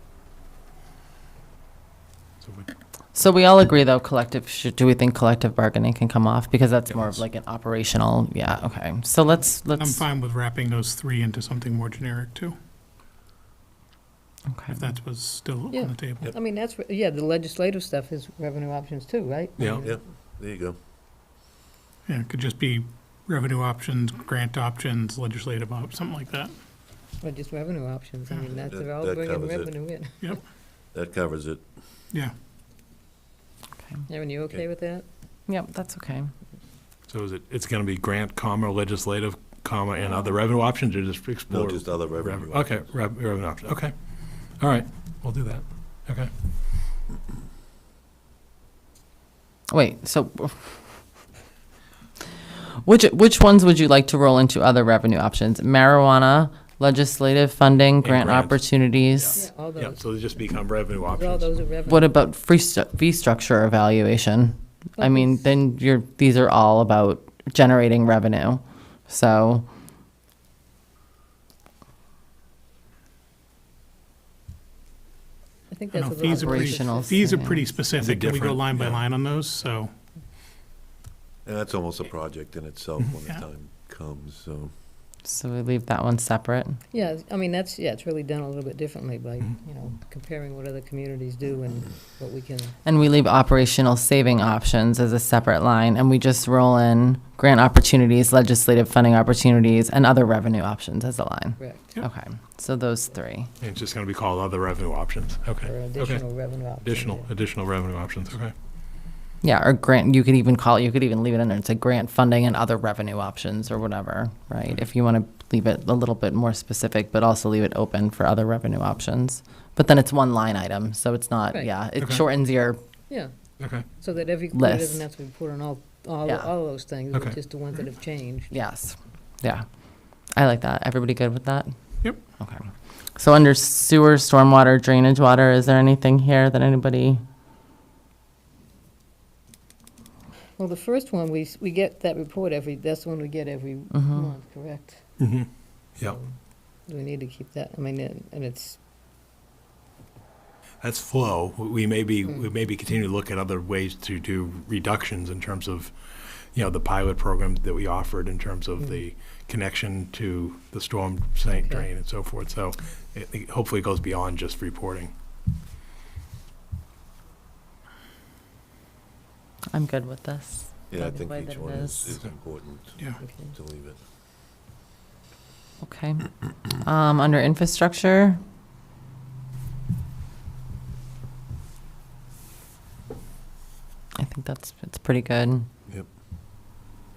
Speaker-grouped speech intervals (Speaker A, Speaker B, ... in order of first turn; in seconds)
Speaker A: 2.4-2.7, 6.9-7.2, 37.1-43.9, 44.6-46.3, 58.0-58.6, 59.1-61.5, 78.0-79.0, 103.6-106.2, 106.8-108.5, 122.0-122.2, 123.6-123.8, 127.1-127.4, 145.2-146.2, 150.8-165.1
Speaker B: 3.1-10.0, 14.5-14.8, 35.5-36.3, 49.7-50.5, 52.8-59.4, 61.9-69.7, 76.3-77.6, 85.2-86.8, 92.8-103.5, 109.4-122.8, 124.5-125.0, 126.2-126.5, 128.5-129.7, 130.3-131.7, 132.4-137.2, 143.9-144.3, 169.7-172.2, 175.8-178.4, 184.2-185.7
Speaker C: 9.8-12.6, 14.7-16.3, 22.1-26.5, 75.9-79.9
Speaker D: 15.7-20.0, 27.2-30.4, 34.1-35.0, 59.4-60.0, 61.1-62.1, 65.0-65.5, 75.7-77.4, 86.9-92.8, 101.6-102.0, 105.6-107.3, 124.0-128.5, 140.6-145.0, 146.0-146.3, 146.9-148.8, 161.5-161.9, 173.2-173.5
Speaker E: 19.8-20.8, 28.7-29.8, 30.9-31.6, 41.5-42.8, 81.5-84.7, 170.9-174.0